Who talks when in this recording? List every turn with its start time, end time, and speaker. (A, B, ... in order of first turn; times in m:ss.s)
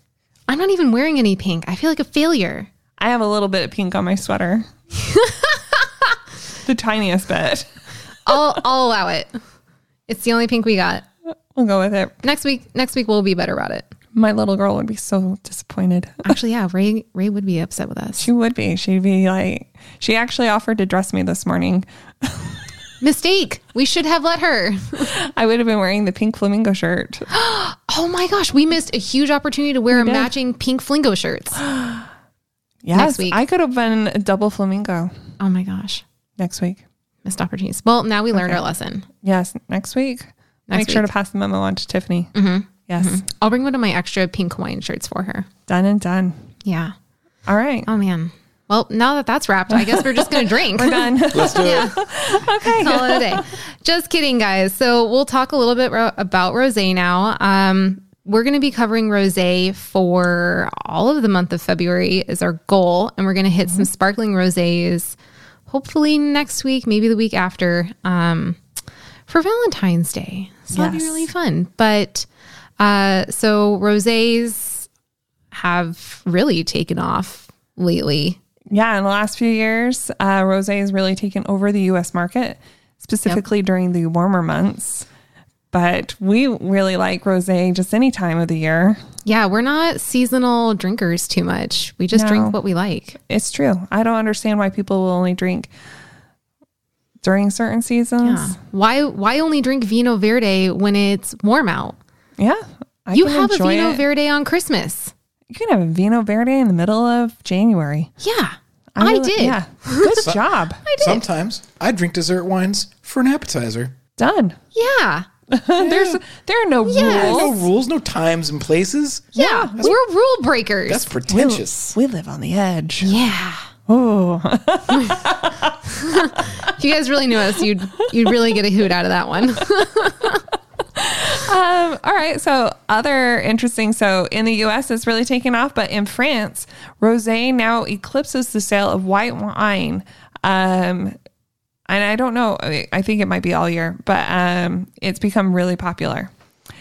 0:00.5-0:02.7 A
0:03.0-0:04.7 B
0:05.1-0:05.6 A
0:06.6-0:07.7 B
0:08.2-0:09.4 A
0:10.1-0:11.0 A
0:11.5-0:12.1 B
0:12.2-0:13.9 A
0:14.1-0:16.3 B
0:16.2-0:18.3 A
0:18.2-0:22.6 B
0:23.0-0:25.1 A
0:25.0-0:27.3 B
0:27.3-0:31.6 A
0:29.9-0:30.3 B
0:31.6-0:32.0 B
0:32.8-0:35.1 B
0:32.9-0:33.4 A
0:35.4-0:36.0 A
0:36.4-0:36.8 B
0:37.2-0:39.1 A
0:38.3-0:38.6 B
0:39.2-0:42.3 B
0:40.7-0:41.1 A
0:42.3-0:45.5 A
0:42.9-0:43.2 B
0:45.7-0:46.4 B
0:46.6-0:46.9 A
0:47.4-0:47.9 B
0:47.9-0:52.0 A
0:49.7-0:53.4 B
0:51.3-0:51.9 C
0:52.6-1:05.2 A
1:05.7-1:08.6 A
1:09.3-1:12.2 A
1:10.7-1:11.3 B
1:12.8-1:14.9 A
1:15.5-1:18.4 A
1:18.7-1:25.1 B
1:25.7-1:29.0 B
1:29.2-1:33.2 A
1:32.1-1:32.6 B
1:33.3-1:35.7 B
1:37.2-1:38.6 B
1:38.2-1:42.0 A
1:42.4-1:44.0 B
1:43.1-1:45.1 A
1:45.5-1:48.1 B
1:48.2-1:50.2 A
1:49.0-1:50.8 B
1:50.8-1:51.2 A
1:51.0-1:53.9 C
1:54.2-1:54.6 B
1:54.7-1:55.3 A
1:55.5-1:57.6 B
1:55.8-1:56.2 C
1:56.8-1:57.6 A
1:57.0-2:00.0 C
1:59.3-1:59.9 B
1:59.3-2:01.6 A
2:00.9-2:01.9 C
2:01.3-2:03.1 B
2:03.0-2:03.7 A
2:03.9-2:06.7 B
2:06.0-2:10.4 A
2:08.0-2:08.3 B
2:10.9-2:21.2 B
2:21.9-2:26.3 B